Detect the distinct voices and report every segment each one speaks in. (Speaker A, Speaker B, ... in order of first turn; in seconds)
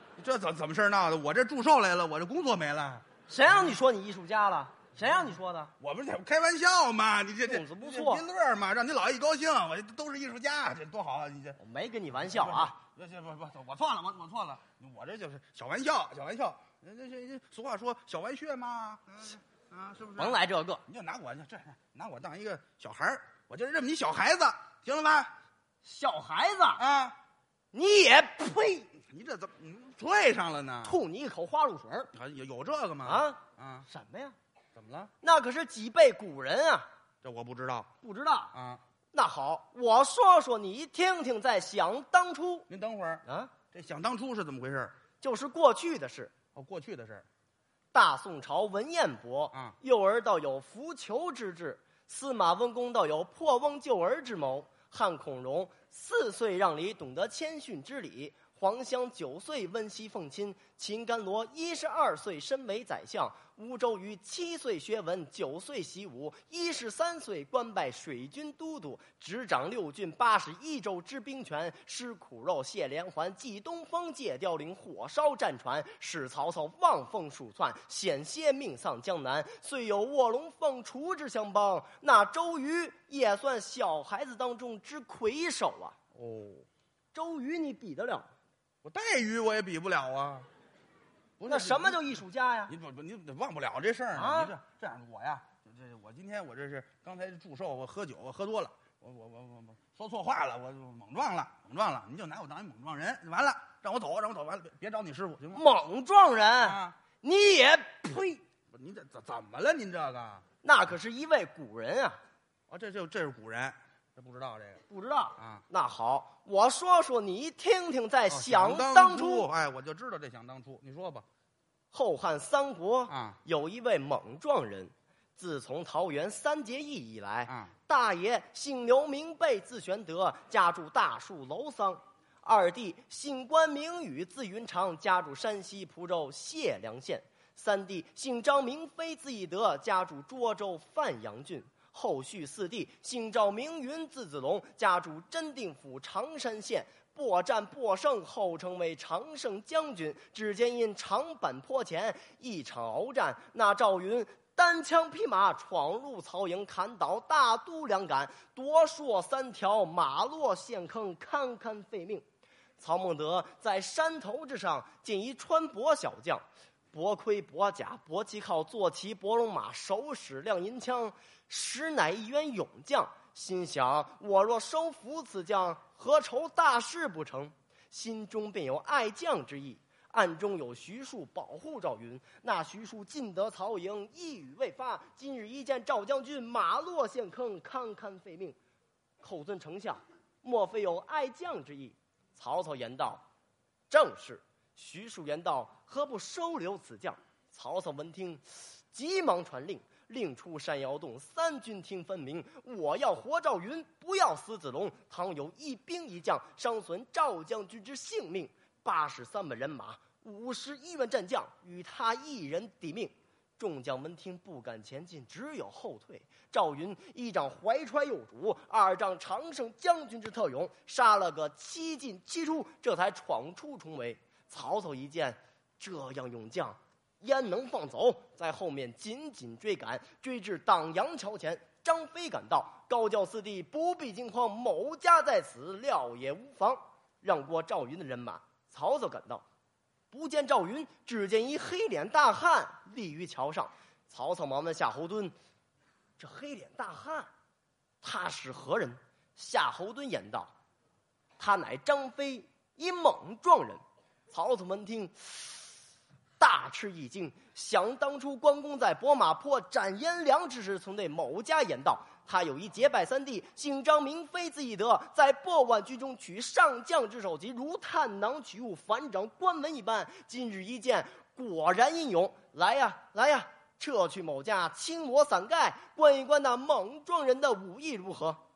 Speaker A: 0.2-3.8, 5.8-11.6, 12.2-25.3, 26.8-27.2, 29.1-31.0, 32.1-33.9, 34.8-35.1, 37.2-37.9, 38.5-38.8, 42.7-44.9, 46.5-47.3, 86.2-86.7, 88.8-90.5, 91.4-92.0, 92.7-105.6, 106.6-107.0, 108.7-110.4, 112.7-114.8, 115.4-115.6, 118.3-121.2, 123.1-123.4, 127.5-127.7
Speaker B: 3.3-5.7, 7.5-8.2, 11.6-12.8, 20.1-20.8, 25.8-26.8, 27.7-28.9, 30.8-32.1, 33.0-34.4, 35.2-36.9, 38.0-38.5, 39.1-42.7, 43.2-43.5, 45.2-46.3, 47.9-86.0, 87.1-88.3, 91.5-92.8, 94.2-94.5, 105.5-108.4, 110.6-112.2, 114.9-119.5, 121.9-162.2, 162.8-188.6, 189.2-193.2, 193.9-239.4, 240.1-245.3, 246.2-247.3, 248.0-250.5, 251.4-255.7, 256.4-278.4